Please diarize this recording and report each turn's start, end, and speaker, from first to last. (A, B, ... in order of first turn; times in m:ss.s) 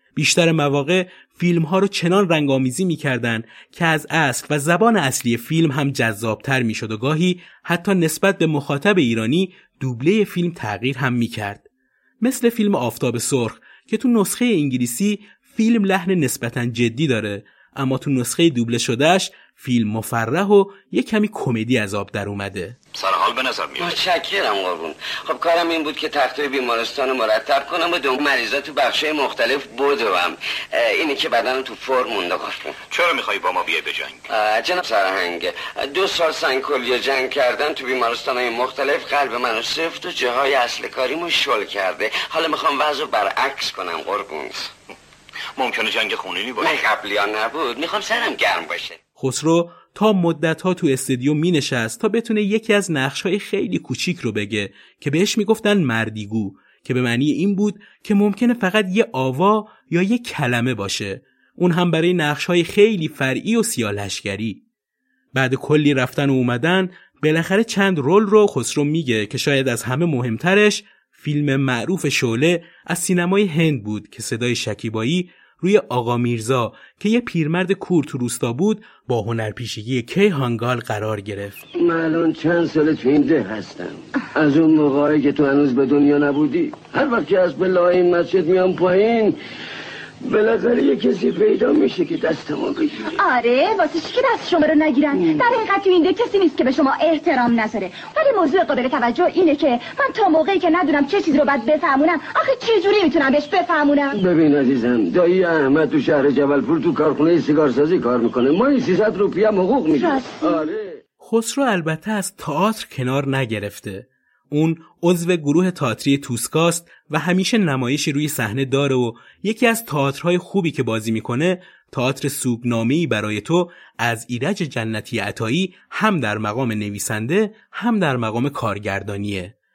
0:00.2-0:11.6 A
0:12.2-0:22.8 A
0:23.0-0:24.0 B
0:23.8-0:32.8 C
0:32.9-0:34.2 B
0:34.3-0:44.7 C
0:45.6-0:46.8 B
0:46.6-0:49.0 C
0:49.2-1:04.6 A
1:05.3-1:21.6 A
1:21.8-1:29.4 D
1:30.2-1:33.2 D
1:33.2-1:44.2 E
1:35.1-1:35.6 D
1:44.1-1:51.0 D
1:50.0-1:50.4 E
1:51.2-2:09.5 A